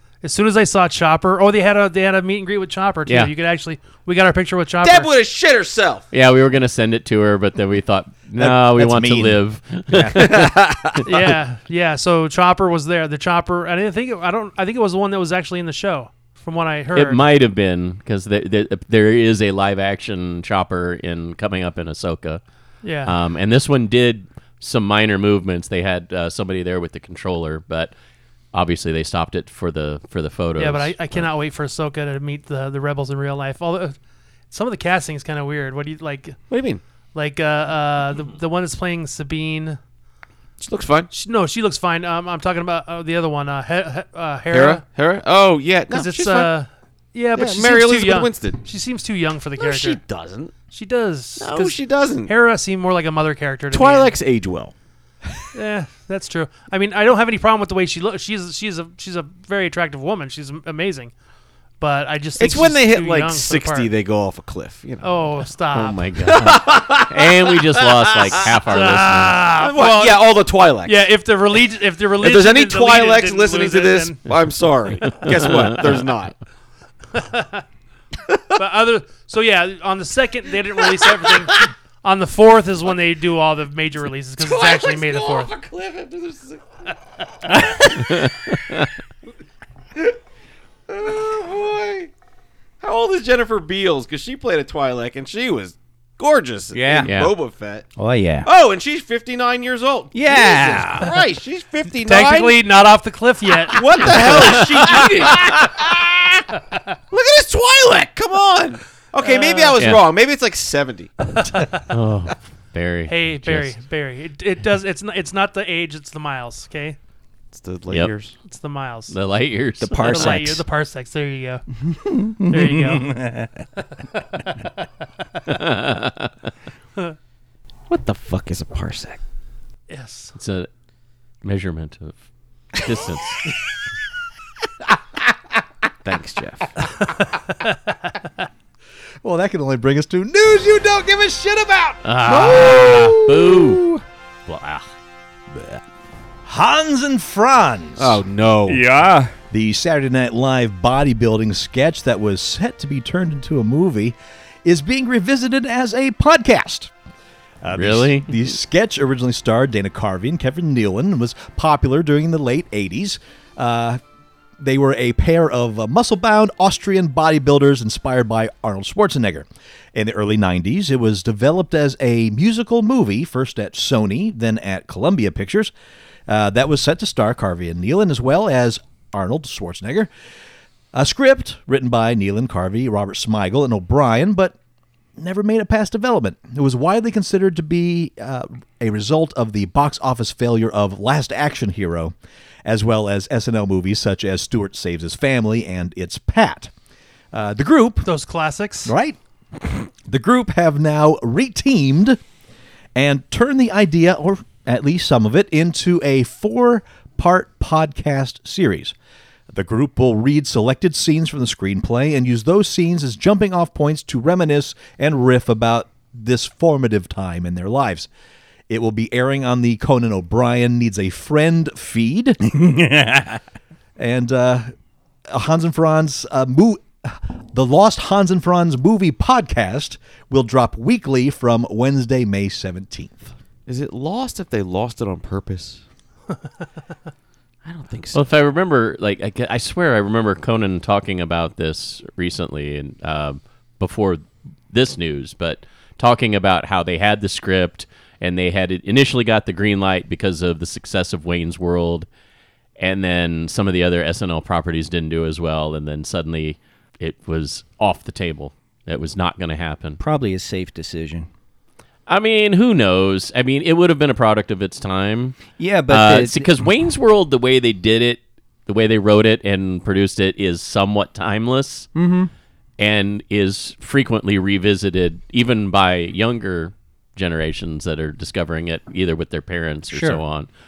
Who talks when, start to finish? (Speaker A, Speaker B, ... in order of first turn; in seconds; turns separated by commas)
Speaker A: 0.2-5.1, Speaker B: 4.8-6.1, Speaker C: 6.1-11.0, Speaker D: 8.4-10.3, Speaker B: 10.2-11.1, Speaker A: 11.0-17.2, Speaker C: 16.9-22.4, Speaker A: 22.8-23.1, Speaker C: 23.0-27.9, Speaker C: 28.5-31.2, Speaker A: 30.6-34.0, Speaker A: 34.5-36.4, Speaker B: 36.5-36.8, Speaker A: 37.1-39.8, Speaker B: 40.6-41.1, Speaker A: 41.1-44.8, Speaker B: 44.5-46.5, Speaker A: 45.9-50.0, Speaker B: 47.4-48.6, Speaker B: 49.6-50.5, Speaker A: 50.7-54.1, Speaker B: 51.4-52.3, Speaker B: 53.7-54.7, Speaker A: 55.5-61.1, Speaker A: 61.8-63.9, Speaker B: 62.4-65.1, Speaker A: 65.0-66.1, Speaker C: 65.7-69.4, Speaker B: 66.2-68.6, Speaker A: 68.7-70.2, Speaker B: 69.5-71.1, Speaker A: 70.8-74.3, Speaker B: 72.2-76.3, Speaker C: 75.1-76.0, Speaker A: 77.1-77.6, Speaker A: 78.5-85.5, Speaker B: 80.8-81.6, Speaker B: 84.4-86.7, Speaker C: 88.1-88.8, Speaker B: 90.9-92.1, Speaker B: 92.8-97.9, Speaker E: 96.7-97.1, Speaker C: 97.0-97.3, Speaker E: 98.0-98.5, Speaker B: 98.4-102.6, Speaker E: 100.1-101.1, Speaker A: 102.0-104.6, Speaker B: 103.6-106.5, Speaker C: 104.3-105.0, Speaker B: 107.1-111.1, Speaker A: 109.2-109.8, Speaker C: 109.8-110.0, Speaker A: 111.3-111.9, Speaker C: 111.9-113.8, Speaker A: 113.1-117.0, Speaker B: 117.5-118.3, Speaker A: 118.4-119.1, Speaker C: 119.1-120.4, Speaker E: 119.8-120.6, Speaker A: 120.0-121.6, Speaker E: 121.9-123.6, Speaker A: 122.5-123.2, Speaker A: 124.2-124.7, Speaker C: 125.5-126.3, Speaker B: 127.9-129.2, Speaker A: 129.9-130.3, Speaker C: 130.3-130.7, Speaker C: 131.4-132.2, Speaker C: 132.7-133.5, Speaker B: 136.0-136.7, Speaker A: 137.1-138.1, Speaker D: 139.2-143.8, Speaker C: 142.0-143.8, Speaker C: 144.5-144.8, Speaker D: 146.4-148.2, Speaker B: 148.0-148.8, Speaker E: 148.7-149.3, Speaker D: 149.5-156.9, Speaker D: 157.6-164.0, Speaker C: 157.7-158.4, Speaker D: 164.6-175.7, Speaker D: 176.3-180.1, Speaker D: 180.9-184.5, Speaker D: 185.2-192.1, Speaker D: 192.6-196.7, Speaker D: 197.3-198.1, Speaker A: 198.0-198.9, Speaker D: 198.8-202.2, Speaker D: 202.9-208.9, Speaker D: 209.5-218.1, Speaker D: 218.7-222.4, Speaker E: 222.4-223.4, Speaker D: 224.0-224.7, Speaker D: 225.3-233.3, Speaker B: 233.7-235.8, Speaker B: 237.6-238.2, Speaker C: 238.1-252.1, Speaker C: 252.8-260.0, Speaker E: 260.0-261.3, Speaker C: 262.1-271.9, Speaker E: 265.6-266.5, Speaker E: 271.9-272.3, Speaker C: 272.8-280.5, Speaker E: 279.9-280.2